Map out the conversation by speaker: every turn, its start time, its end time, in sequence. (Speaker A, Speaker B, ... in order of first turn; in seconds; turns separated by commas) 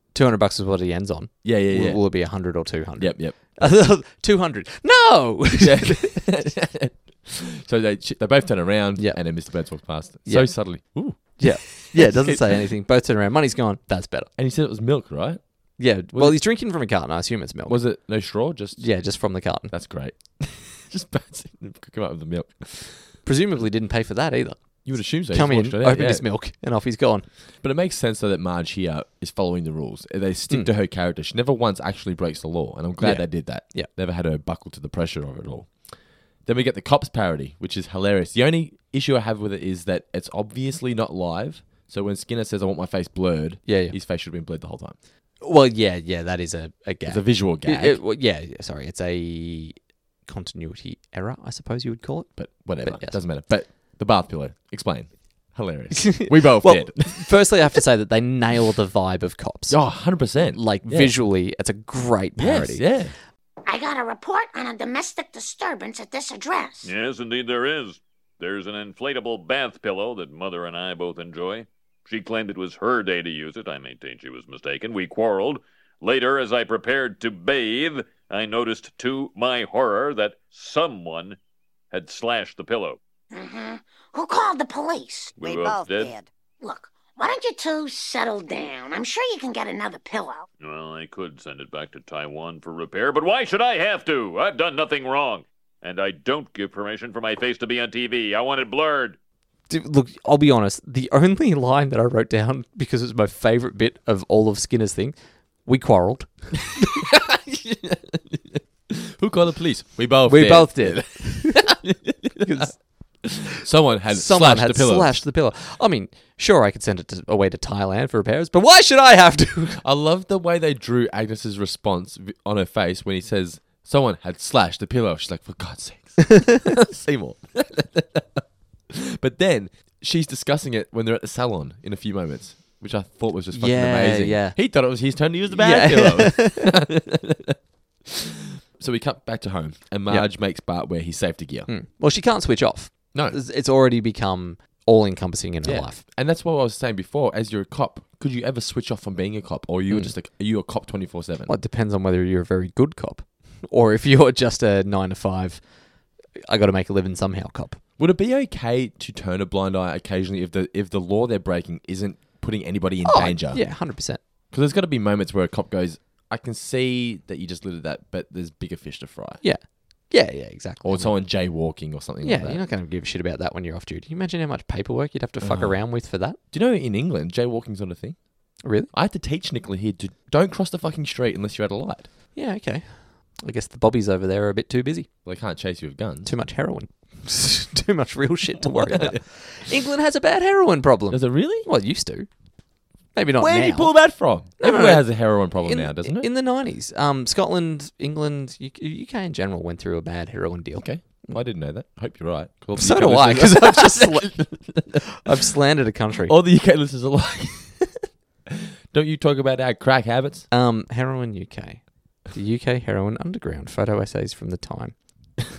Speaker A: 0.1-6.1, Speaker B: 1.4-2.3, Speaker B: 3.0-3.9, Speaker B: 5.6-12.6, Speaker A: 9.0-9.6, Speaker A: 10.3-10.6, Speaker A: 11.2-14.3, Speaker B: 14.4-15.4, Speaker A: 15.8-17.8, Speaker B: 16.1-16.4, Speaker B: 17.7-18.9, Speaker A: 18.8-19.7, Speaker B: 19.7-23.1, Speaker A: 23.2-27.3, Speaker B: 24.8-26.2, Speaker B: 27.6-35.7, Speaker A: 33.0-33.9, Speaker B: 36.4-45.0, Speaker A: 43.7-44.0, Speaker A: 45.4-53.2, Speaker B: 47.1-48.0, Speaker B: 52.4-57.5, Speaker A: 56.1-62.9, Speaker B: 59.7-61.1, Speaker B: 62.4-63.2, Speaker C: 63.7-66.9, Speaker D: 66.8-81.4, Speaker D: 81.9-83.0, Speaker C: 83.3-85.4, Speaker D: 85.4-86.2, Speaker C: 86.6-90.5, Speaker D: 90.6-99.2, Speaker A: 99.7-106.5, Speaker B: 106.9-115.2, Speaker A: 110.3-111.7, Speaker A: 112.4-112.8, Speaker A: 114.1-119.8, Speaker B: 119.8-128.4, Speaker B: 129.2-137.6, Speaker A: 133.5-134.6, Speaker A: 135.5-136.7, Speaker B: 138.8-141.7, Speaker A: 141.7-146.0, Speaker B: 143.1-143.4, Speaker B: 145.6-151.5, Speaker A: 151.5-155.6, Speaker A: 156.4-157.8, Speaker B: 158.0-163.7, Speaker A: 163.1-164.2, Speaker B: 164.5-169.4, Speaker A: 169.4-171.2, Speaker B: 170.8-172.7, Speaker A: 172.2-176.4, Speaker B: 175.4-175.8, Speaker B: 176.5-178.2, Speaker A: 178.6-178.9, Speaker B: 178.9-182.1, Speaker A: 182.3-185.1, Speaker B: 185.2-186.3, Speaker A: 186.3-192.3, Speaker B: 188.6-189.2, Speaker B: 191.1-191.7, Speaker A: 193.1-201.4, Speaker B: 193.4-196.3, Speaker B: 200.8-205.2, Speaker A: 202.8-206.3, Speaker B: 206.3-208.0, Speaker B: 208.5-210.5, Speaker A: 210.5-214.9